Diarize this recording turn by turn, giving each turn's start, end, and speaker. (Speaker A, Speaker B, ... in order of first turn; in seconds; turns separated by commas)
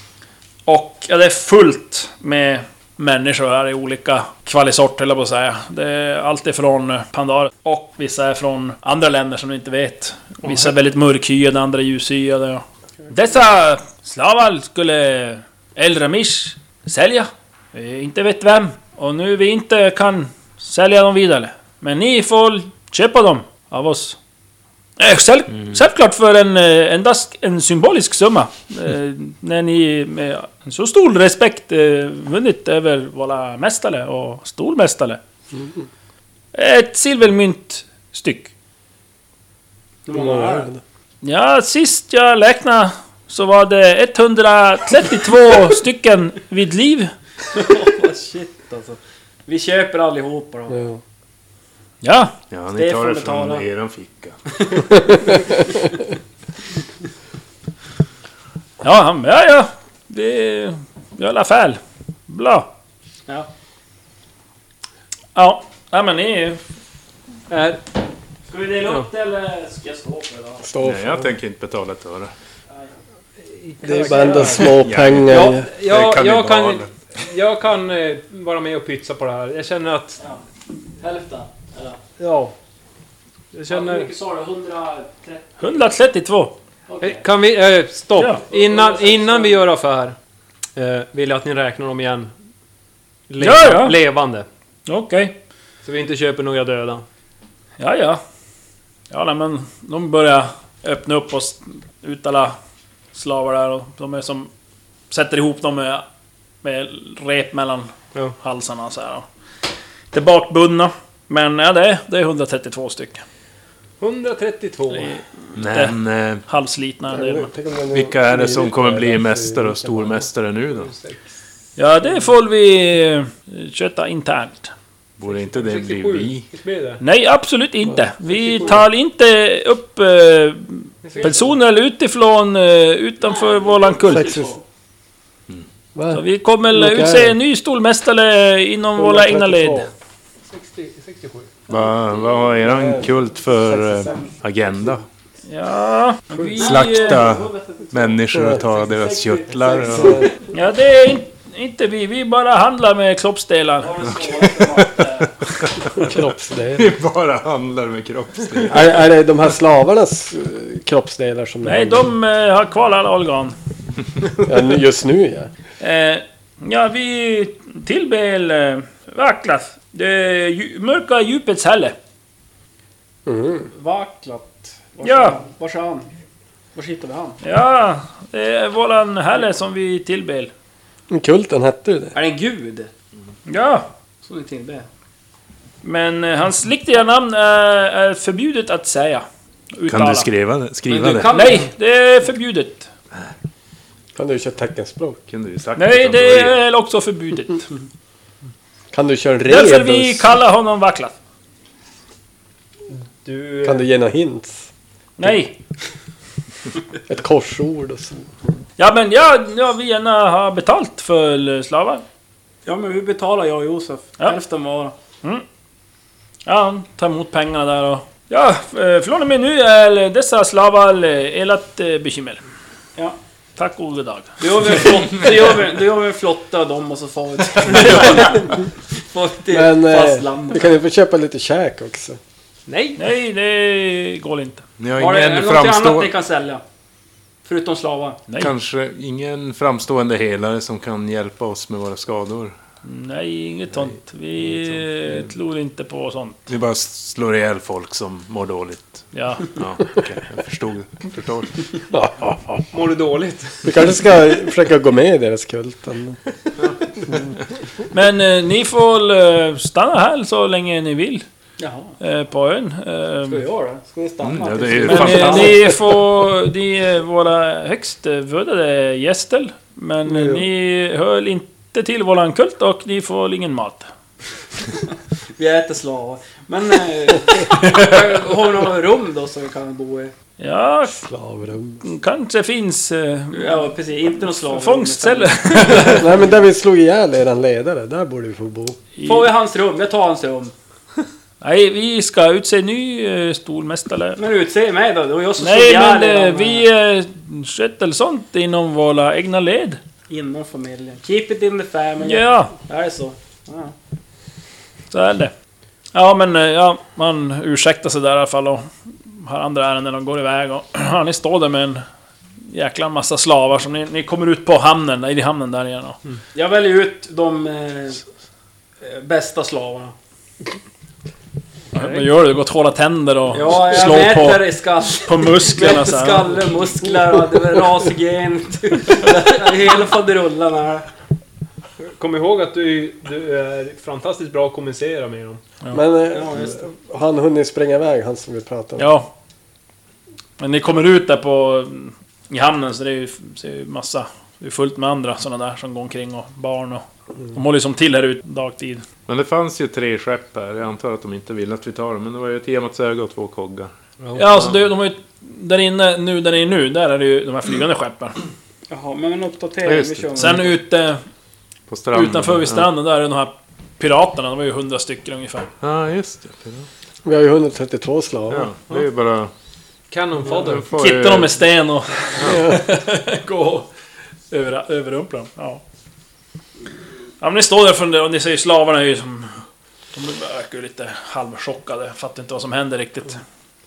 Speaker A: 0.7-24.2, Speaker B: 10.4-10.7, Speaker A: 25.0-35.2, Speaker C: 35.5-35.9, Speaker A: 36.5-38.5, Speaker D: 40.1-40.7, Speaker C: 40.1-40.8, Speaker A: 41.2-47.1, Speaker D: 47.5-50.8, Speaker C: 50.7-51.0, Speaker A: 52.0-52.3, Speaker E: 52.5-54.4, Speaker D: 52.8-53.6, Speaker A: 58.8-62.7, Speaker A: 65.3-66.6, Speaker B: 67.5-67.8, Speaker A: 68.5-70.7, Speaker B: 68.8-69.1, Speaker C: 70.6-71.3, Speaker E: 70.8-72.3, Speaker B: 73.4-80.2, Speaker C: 73.8-75.7, Speaker E: 74.6-76.9, Speaker A: 81.0-82.0, Speaker B: 82.2-82.5, Speaker B: 83.5-84.1, Speaker A: 83.7-87.2, Speaker B: 87.0-90.2, Speaker A: 88.2-89.5, Speaker B: 90.8-92.3, Speaker B: 93.3-94.5, Speaker A: 93.4-94.0, Speaker A: 94.9-95.4, Speaker B: 95.8-97.0, Speaker A: 97.8-98.2, Speaker A: 99.1-102.6, Speaker A: 103.1-104.5, Speaker A: 105.1-106.0, Speaker A: 106.6-109.3, Speaker A: 110.1-113.2, Speaker B: 114.0-115.2, Speaker A: 114.9-117.5, Speaker E: 115.6-116.4, Speaker C: 117.1-120.2, Speaker E: 117.9-120.9, Speaker B: 120.7-121.2, Speaker A: 121.8-124.7, Speaker E: 125.2-126.5, Speaker B: 125.2-127.0, Speaker A: 127.0-134.4, Speaker B: 128.3-128.8, Speaker B: 131.0-131.5, Speaker D: 133.2-134.6, Speaker C: 134.1-134.6, Speaker C: 135.9-137.4, Speaker A: 136.1-139.9, Speaker C: 139.0-139.9, Speaker B: 140.5-141.5, Speaker E: 141.7-145.1, Speaker C: 142.6-144.2, Speaker A: 145.5-147.3, Speaker D: 146.6-150.3, Speaker E: 146.6-150.3, Speaker C: 148.3-148.6, Speaker C: 149.7-150.3, Speaker A: 150.5-154.5, Speaker D: 153.8-155.3, Speaker E: 154.2-154.9, Speaker E: 155.7-156.2, Speaker C: 155.9-156.9, Speaker E: 156.7-159.0, Speaker C: 158.7-162.1, Speaker A: 161.6-163.6, Speaker C: 164.4-165.5, Speaker A: 165.8-172.0, Speaker C: 173.2-173.7, Speaker D: 173.7-176.1, Speaker A: 175.0-175.4, Speaker D: 176.8-177.4, Speaker A: 177.4-180.5, Speaker C: 181.1-182.2, Speaker D: 182.2-182.9, Speaker A: 183.5-183.9, Speaker D: 184.2-184.9, Speaker A: 185.8-190.3, Speaker E: 189.9-191.3, Speaker D: 190.9-191.7, Speaker A: 191.3-192.9, Speaker C: 194.2-195.2, Speaker E: 195.3-196.6, Speaker A: 195.8-197.7, Speaker C: 198.9-200.3, Speaker A: 199.5-201.2, Speaker B: 202.9-203.8, Speaker C: 203.6-204.7, Speaker A: 205.2-205.6, Speaker C: 207.1-208.3, Speaker A: 208.8-212.0, Speaker D: 212.7-215.0, Speaker A: 216.5-222.4, Speaker A: 223.6-224.9, Speaker D: 224.4-230.7, Speaker C: 229.5-232.2, Speaker B: 232.7-233.0, Speaker A: 233.0-234.6, Speaker E: 234.8-236.1, Speaker D: 235.0-236.6, Speaker D: 237.4-238.2, Speaker A: 238.3-238.5, Speaker E: 238.4-242.6, Speaker A: 242.8-246.5, Speaker E: 246.5-251.7, Speaker A: 249.1-249.5, Speaker C: 251.9-252.6, Speaker B: 252.7-253.8, Speaker C: 253.6-256.2, Speaker A: 257.9-261.2, Speaker D: 261.6-261.9, Speaker A: 262.0-263.4, Speaker D: 263.3-265.8, Speaker E: 264.2-265.7, Speaker A: 264.8-273.9, Speaker C: 270.1-270.4, Speaker D: 275.4-280.1, Speaker A: 280.4-281.0, Speaker C: 280.9-281.8, Speaker A: 281.8-283.7, Speaker D: 283.3-286.2, Speaker A: 284.2-286.2, Speaker C: 285.8-288.8, Speaker A: 289.0-289.3, Speaker D: 289.1-290.5, Speaker A: 291.4-294.2, Speaker D: 294.2-296.6, Speaker A: 295.4-299.8, Speaker D: 300.1-303.8, Speaker A: 302.0-302.6, Speaker A: 304.9-305.3, Speaker A: 305.9-311.9, Speaker A: 312.4-316.0, Speaker D: 316.3-318.0, Speaker D: 318.8-319.9, Speaker A: 321.7-326.4, Speaker B: 321.8-322.0, Speaker D: 323.3-330.9, Speaker B: 331.9-335.4, Speaker C: 335.7-338.9, Speaker D: 336.1-336.6, Speaker A: 338.8-339.1, Speaker A: 340.4-348.9, Speaker E: 349.1-353.7, Speaker B: 354.0-354.5, Speaker A: 354.1-358.2, Speaker D: 358.7-360.5, Speaker E: 359.6-360.4, Speaker A: 360.2-361.0, Speaker E: 361.7-362.7, Speaker A: 361.9-365.5, Speaker E: 365.6-366.7, Speaker C: 367.0-368.5, Speaker E: 368.3-369.3, Speaker B: 369.9-370.7, Speaker E: 370.3-371.4, Speaker A: 370.7-373.7, Speaker A: 374.3-375.6, Speaker A: 377.2-379.4, Speaker A: 379.9-383.2